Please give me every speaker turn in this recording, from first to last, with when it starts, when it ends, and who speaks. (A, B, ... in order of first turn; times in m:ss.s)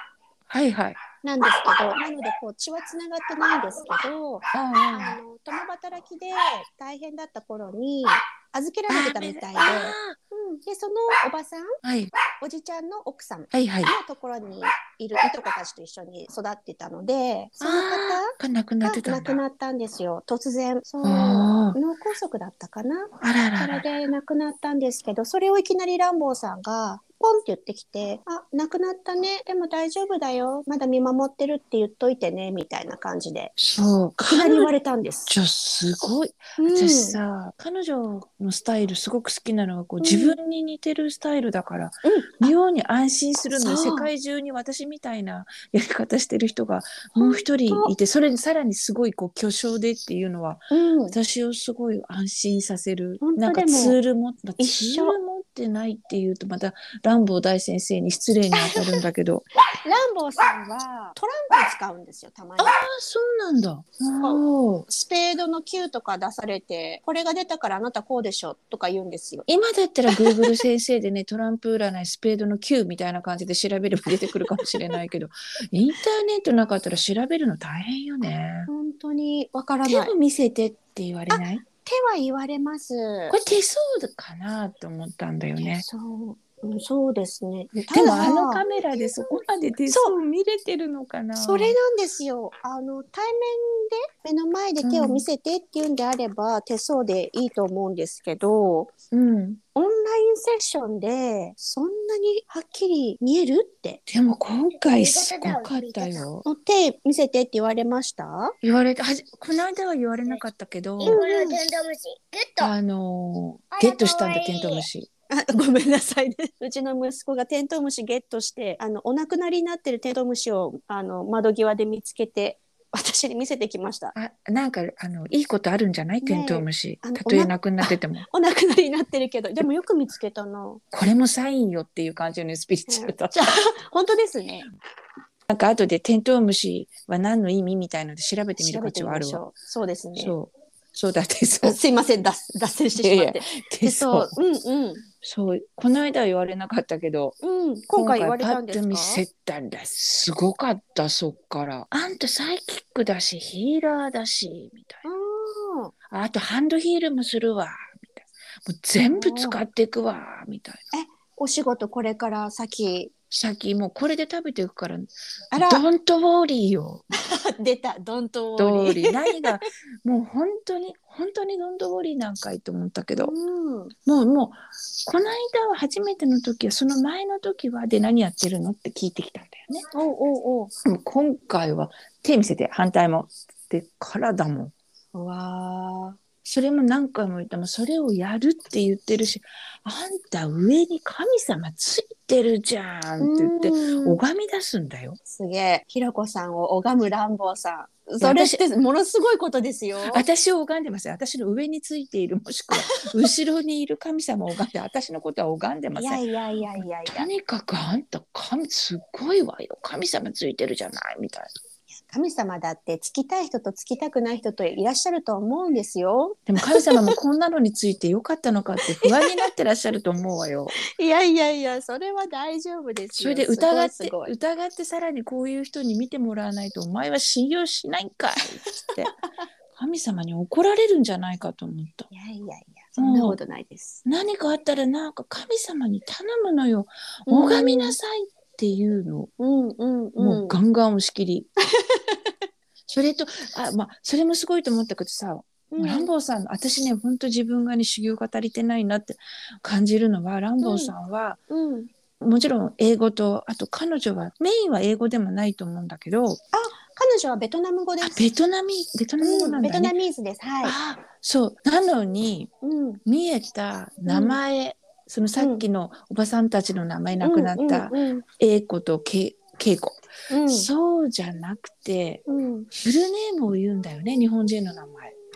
0:00.5-0:01.0 A
0:01.2-0:11.8 B
0:04.5-0:05.2 A
0:08.9-0:10.2 A
0:11.8-0:12.1 A
0:12.4-0:33.5 B
0:13.5-0:13.9 A
0:17.6-0:19.4 A
0:21.0-0:21.8 A
0:23.2-0:23.8 A
0:33.6-0:34.7 A
0:34.3-0:35.4 B
0:35.3-0:59.5 A
0:36.6-0:37.2 B
0:40.0-0:40.4 B
0:42.0-0:42.5 B
0:43.5-0:44.1 B
0:47.2-0:47.9 B
0:50.7-0:51.2 B
0:53.2-0:54.0 B
0:54.6-0:55.2 B
0:58.6-0:59.0 B
0:59.8-1:02.8 B
1:02.6-1:04.8 A
1:04.2-1:09.5 B
1:09.5-1:18.7 A
1:10.1-1:10.5 B
1:14.4-1:14.8 B
1:18.7-1:20.1 B
1:19.8-1:21.6 A
1:21.3-1:23.4 B
1:23.3-1:25.8 A
1:25.7-1:30.2 B
1:27.9-1:31.8 A
1:31.4-1:38.9 B
1:34.8-1:35.2 A
1:39.1-1:39.6 A
1:39.7-1:44.0 B
1:44.1-1:46.4 A
1:45.2-1:45.9 C
1:46.4-1:48.6 B
1:48.6-1:51.2 A
1:51.0-1:51.7 B
1:51.6-1:52.4 C
1:52.6-1:55.1 A
1:54.0-1:54.4 C
1:55.3-2:04.1 B
2:04.1-2:08.3 A
2:06.2-2:10.8 B
2:10.9-2:13.3 A
2:12.9-2:14.7 B
2:15.5-2:19.4 A
2:18.6-2:20.4 B
2:20.2-2:21.8 A
2:21.6-2:25.0 B
2:23.0-2:24.3 A
2:25.2-2:27.4 A
2:27.4-2:29.2 B
2:27.9-2:35.0 A
2:35.0-2:35.9 B
2:36.1-2:40.8 A
2:39.1-2:39.6 B
2:40.9-2:43.1 B
2:43.3-2:47.1 A
2:45.5-2:45.8 B
2:47.2-2:49.6 B
2:48.6-2:53.3 A
2:53.2-2:53.9 B
2:54.0-2:59.8 A
2:59.9-3:00.7 B
3:00.8-3:04.7 A
3:05.1-3:06.2 B
3:06.4-3:15.2 A
3:13.2-3:14.2 B
3:15.3-3:20.2 B
3:18.2-3:18.6 A
3:20.0-3:26.2 A
3:22.7-3:23.1 B
3:25.9-3:27.3 B
3:26.7-3:31.5 A
3:32.1-3:37.1 B
3:36.5-3:40.8 A
3:39.0-3:39.5 B
3:40.9-3:44.3 B
3:43.1-3:49.1 A
3:48.8-3:49.2 B
3:49.7-3:52.1 A
3:52.1-3:54.0 B
3:53.0-3:53.4 A
3:54.0-3:59.3 A
3:57.3-3:58.0 B
3:59.4-4:00.6 B
4:00.2-4:01.5 A
4:01.9-4:02.3 B
4:02.9-4:11.4 A
4:05.7-4:06.1 B
4:10.6-4:10.9 B
4:11.5-4:11.9 B
4:12.2-4:16.4 A
4:16.5-4:18.2 B
4:18.0-4:19.9 A
4:19.2-4:20.8 B
4:20.6-4:22.5 A
4:22.6-4:23.0 B
4:23.0-4:35.1 A
4:24.0-4:24.4 B
4:25.4-4:25.6 B
4:27.2-4:28.2 B
4:30.3-4:30.7 B
4:32.3-4:32.7 B